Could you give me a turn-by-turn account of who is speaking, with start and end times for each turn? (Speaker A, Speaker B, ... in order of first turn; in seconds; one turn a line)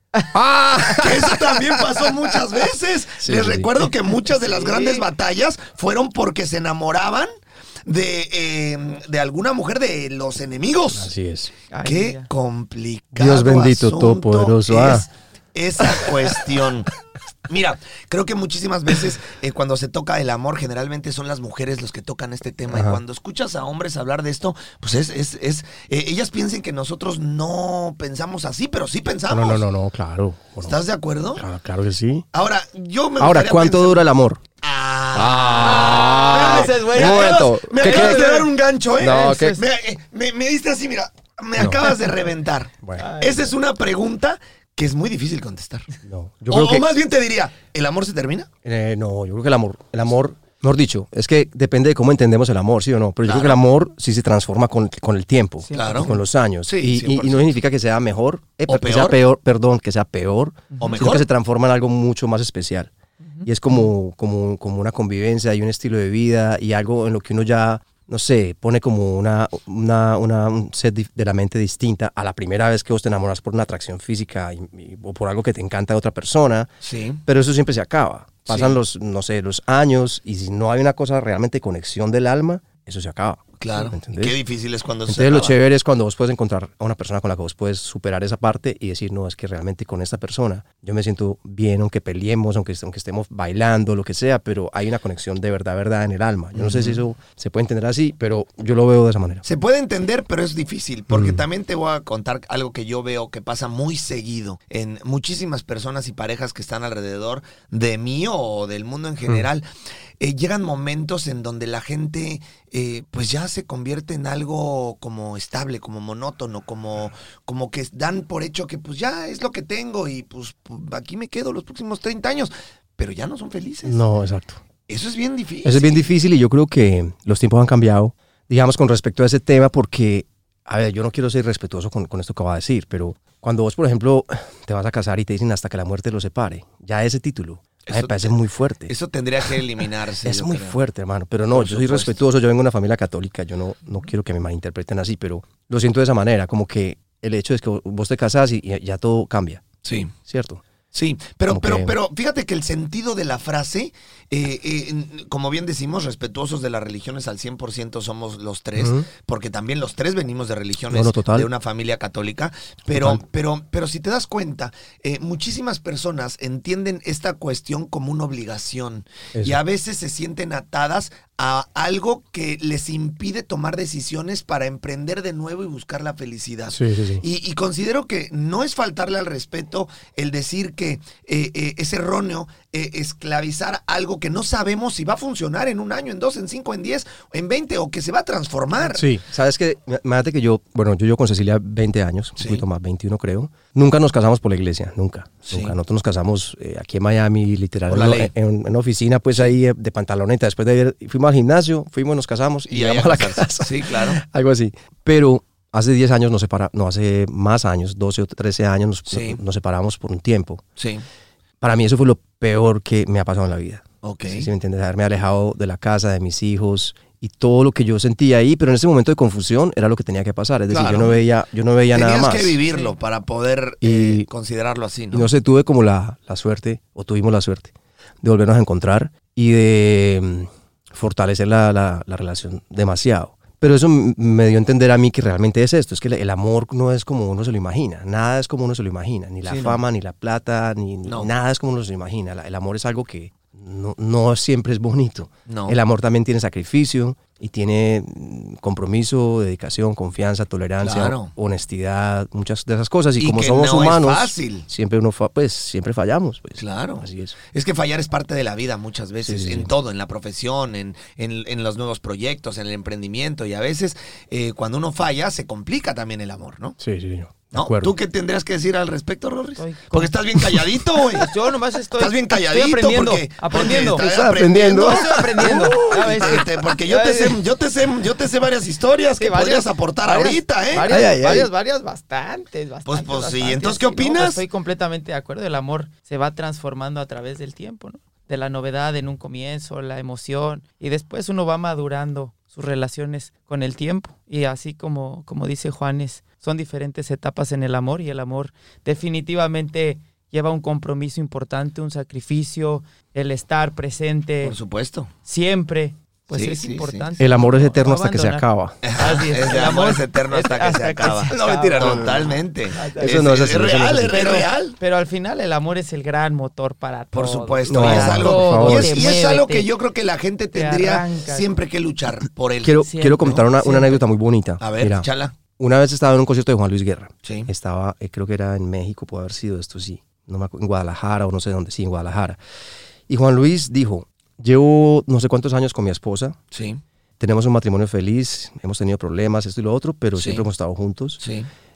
Speaker A: 0.3-1.9
Speaker B: 0.9-7.3
Speaker A: 3.2-3.8
Speaker C: 4.3-5.0
Speaker B: 7.8-11.1
Speaker A: 10.9-11.5
Speaker C: 11.7-12.3
Speaker B: 11.8-16.9
Speaker A: 13.2-15.1
Speaker A: 15.9-16.3
Speaker B: 17.5-29.6
Speaker A: 22.7-23.0
Speaker A: 29.3-30.8
Speaker B: 30.6-31.4
Speaker A: 31.4-32.2
Speaker B: 32.3-34.0
Speaker A: 33.2-34.4
Speaker B: 34.6-45.9
Speaker A: 35.1-38.4
Speaker C: 35.5-39.6
Speaker A: 39.0-39.6
Speaker A: 41.6-41.9
Speaker C: 43.0-43.5
Speaker A: 46.0-46.9
Speaker B: 46.5-48.5
Speaker A: 48.6-62.9
Speaker B: 53.2-53.6
Speaker C: 55.7-56.1
Speaker B: 55.7-57.5
Speaker B: 58.7-59.2
Speaker C: 60.7-61.0
Speaker B: 60.8-61.2
Speaker A: 63.4-76.7
Speaker B: 76.8-77.2
Speaker A: 77.2-84.4
Speaker B: 78.5-78.8
Speaker B: 83.6-85.6
Speaker A: 85.1-99.4
Speaker B: 96.5-97.0
Speaker B: 99.4-109.6
Speaker A: 101.1-101.4
Speaker B: 110.2-124.0
Speaker A: 123.8-124.6
Speaker B: 124.9-126.1
Speaker A: 125.6-138.9
Speaker B: 137.8-140.8
Speaker A: 140.2-150.6
Speaker B: 141.5-142.2
Speaker B: 149.8-150.1
Speaker B: 150.9-189.1
Speaker A: 151.5-151.9
Speaker A: 158.8-159.1
Speaker A: 160.9-161.5
Speaker A: 162.9-163.2
Speaker A: 176.7-177.2
Speaker A: 188.9-210.6
Speaker B: 192.4-192.6
Speaker B: 195.4-195.7
Speaker B: 197.9-198.3
Speaker B: 202.7-204.2
Speaker B: 209.1-209.4
Speaker B: 210.8-211.0
Speaker A: 211.6-222.6
Speaker B: 214.0-214.5
Speaker B: 220.7-221.2
Speaker B: 221.9-225.3
Speaker A: 223.8-224.3
Speaker A: 225.1-257.3
Speaker B: 239.4-239.8
Speaker B: 241.0-241.3
Speaker B: 245.5-245.8
Speaker B: 250.8-251.3
Speaker B: 253.2-254.7
Speaker B: 256.6-266.8
Speaker A: 259.2-259.7
Speaker A: 266.8-267.9
Speaker B: 267.5-271.3
Speaker C: 269.6-270.1
Speaker C: 271.1-274.0
Speaker B: 272.0-280.9
Speaker A: 273.6-276.4
Speaker C: 274.7-277.4
Speaker C: 279.2-304.6
Speaker A: 280.9-281.5
Speaker B: 282.9-284.4
Speaker B: 304.4-305.1
Speaker C: 305.2-308.4
Speaker B: 306.3-307.1
Speaker A: 307.2-308.8
Speaker B: 308.8-314.8
Speaker C: 308.9-313.2
Speaker A: 311.2-312.3
Speaker A: 312.9-314.4
Speaker C: 314.1-319.7
Speaker B: 317.1-323.4
Speaker A: 317.7-319.1
Speaker C: 320.5-321.5
Speaker A: 322.6-332.4
Speaker C: 322.8-324.0
Speaker B: 324.6-325.3
Speaker B: 327.2-327.5
Speaker A: 333.1-336.4
Speaker B: 336.5-336.8
Speaker A: 337.2-341.2
Speaker B: 340.1-340.4
Speaker B: 341.2-341.5